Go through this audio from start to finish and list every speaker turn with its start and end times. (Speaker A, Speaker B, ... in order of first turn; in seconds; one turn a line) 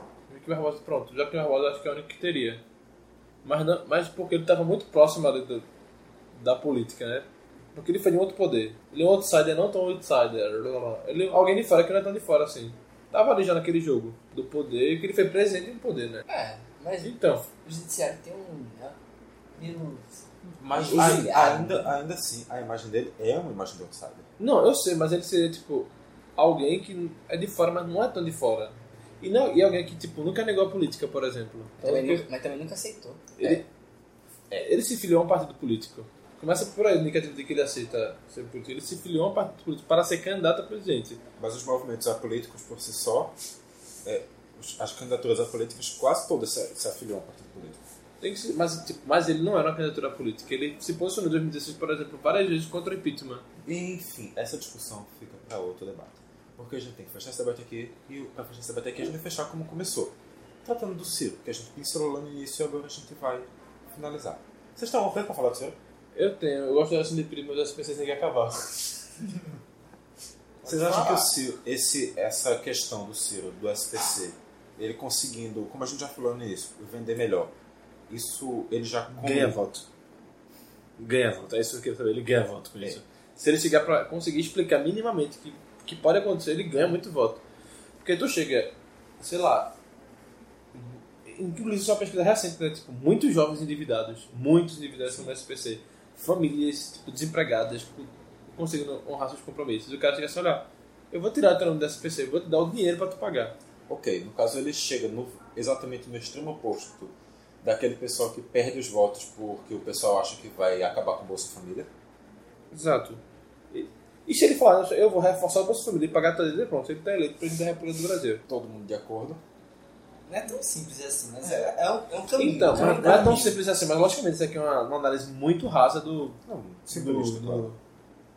Speaker A: 0.3-2.6
Speaker A: 3.4-5.7
Speaker A: 6.3-16.3
Speaker B: 16.3-19.0
Speaker A: 17.0-17.5
Speaker B: 19.6-20.1
Speaker C: 20.6-24.3
Speaker B: 20.7-21.9
Speaker A: 24.4-32.3
Speaker B: 31.8-33.6
Speaker A: 33.4-33.7
Speaker A: 34.5-41.2
Speaker C: 41.4-43.4
Speaker C: 44.0-47.8
Speaker A: 48.2-53.5
Speaker C: 53.6-65.8
Speaker A: 66.1-69.0
Speaker A: 70.6-71.3
Speaker C: 70.6-77.5
Speaker C: 78.1-79.6
Speaker A: 79.1-79.9
Speaker A: 81.0-87.4
Speaker A: 88.0-89.8
Speaker A: 90.8-103.6
Speaker C: 103.9-111.9
Speaker A: 112.7-118.4
Speaker C: 118.5-119.4
Speaker B: 120.3-123.6
Speaker A: 122.3-127.8
Speaker C: 122.7-123.6
Speaker C: 126.5-127.7